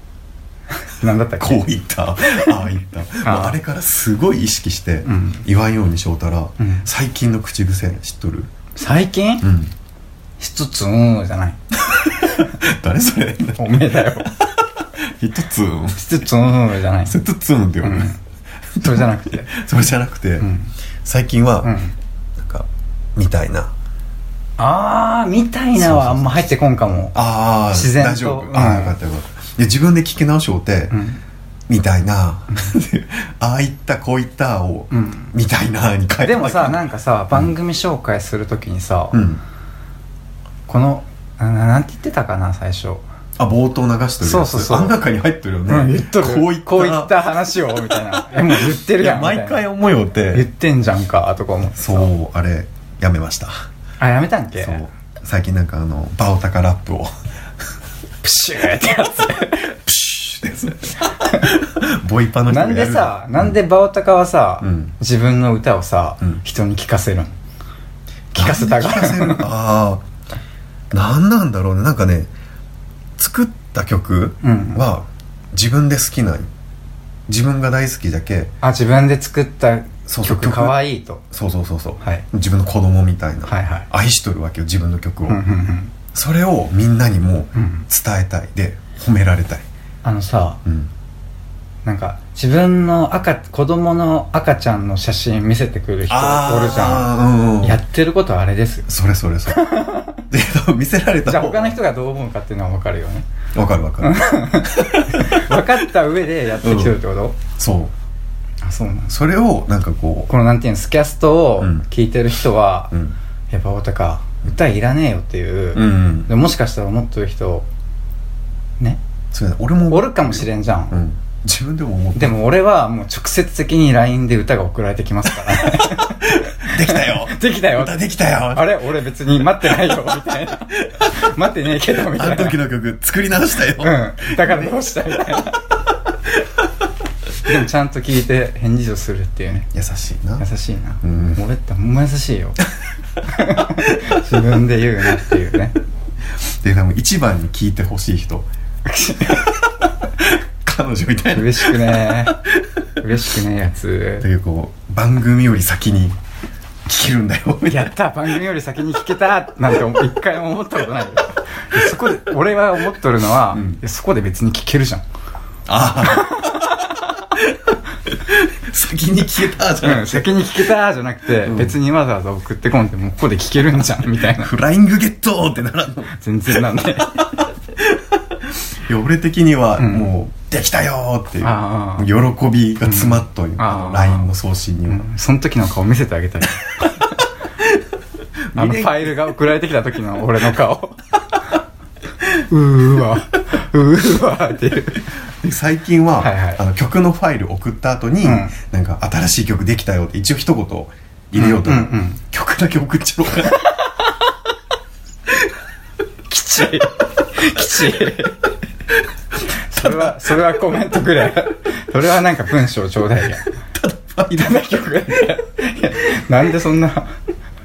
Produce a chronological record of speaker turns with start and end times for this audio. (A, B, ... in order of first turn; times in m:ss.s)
0:00.8-0:01.6 A
0:01.4-0:08.5 B
0:02.2-0:02.5 A
0:03.2-0:03.6 A
0:05.0-0:05.4 A
0:06.6-0:06.9 A
0:08.8-0:09.5 A
0:09.4-0:09.7 B
0:10.4-0:11.6 A
0:11.8-0:16.3 B
0:13.6-0:14.3 A
0:16.0-0:17.2 A
0:17.0-0:18.1 B
0:17.8-0:18.2 A
0:18.7-0:20.5 B
0:18.8-0:19.5 A
0:20.4-0:20.7 A
0:21.0-0:21.7 B
0:21.6-0:21.9 A
0:22.4-0:23.7 B
0:24.6-0:27.2 A
0:25.8-0:26.4 B
0:27.1-0:31.0 B
0:27.7-0:28.9 A
0:30.9-0:31.2 A
0:31.7-0:37.5 B
0:34.9-0:35.3 A
0:36.2-0:39.2 A
0:39.1-0:39.4 B
0:40.7-0:43.0 A
0:43.4-0:47.1 B
0:44.2-0:45.0 A
0:45.7-0:49.6 A
0:47.9-0:50.5 B
0:50.3-0:52.1 A
0:51.8-0:53.6 B
0:54.0-0:54.8 A
0:54.6-0:57.1 B
0:58.2-0:59.7 A
0:59.6-1:03.6 B
1:01.1-1:01.5 A
1:02.5-1:07.4 A
1:04.6-1:04.9 B
1:08.3-1:09.5 A
1:08.4-1:10.0 B
1:10.9-1:12.3 B
1:13.2-1:16.5 B
1:14.4-1:14.8 A
1:17.3-1:18.5 B
1:18.6-1:21.2 A
1:20.1-1:20.8 B
1:21.3-1:25.4 B
1:23.4-1:23.9 A
1:25.3-1:25.9 A
1:26.1-1:29.6 B
1:27.5-1:27.8 A
1:30.0-1:30.6 A
1:30.6-1:30.9 B
1:31.8-1:38.9 A
1:36.1-1:37.8 B
1:38.9-1:39.8 B
1:39.5-1:40.2 A
1:40.3-1:41.8 B
1:41.2-1:43.2 A
1:43.5-1:45.6 B
1:44.0-1:47.4 A
1:46.6-1:47.0 B
1:47.6-1:47.9 B
1:48.6-1:49.1 A
1:49.1-1:50.3 B
1:50.3-1:52.9 A
1:53.5-1:57.7 A
1:55.7-1:56.3 B
1:59.3-2:02.4 B
1:59.9-2:01.0 A
2:02.1-2:08.0 A
2:05.4-2:08.8 B
2:08.5-2:12.6 A
2:09.8-2:10.6 B
2:12.0-2:15.4 B
2:13.8-2:15.7 A
2:17.4-2:19.7 A
2:19.7-2:20.4 B
2:20.4-2:22.6 A
2:21.0-2:21.4 B
2:23.2-2:25.8 A
2:26.4-2:28.5 B
2:28.8-2:29.6 A
2:29.2-2:32.8 B
2:31.3-2:32.4 A
2:33.0-2:34.3 A
2:34.2-2:36.2 B
2:36.8-2:37.9 B
2:37.7-2:45.0 A
2:43.5-2:43.8 B
2:45.6-2:50.4 B
2:46.0-2:46.9 A
2:49.8-2:54.5 A
2:51.4-2:51.7 B
2:54.2-3:05.1 B
2:56.1-2:57.3 A
2:59.8-3:00.1 A
3:01.4-3:02.1 A
3:02.8-3:04.3 A
3:04.9-3:07.3 A
3:08.5-3:09.3 B
3:08.5-3:11.1 A
3:12.3-3:15.1 A
3:15.4-3:23.7 B
3:16.2-3:16.6 A
3:18.2-3:18.5 A
3:21.3-3:22.2 A
3:26.3-3:28.4 A
3:29.5-3:33.6 A
3:29.8-3:30.1 B
3:33.7-3:35.3 B
3:34.3-3:37.2 A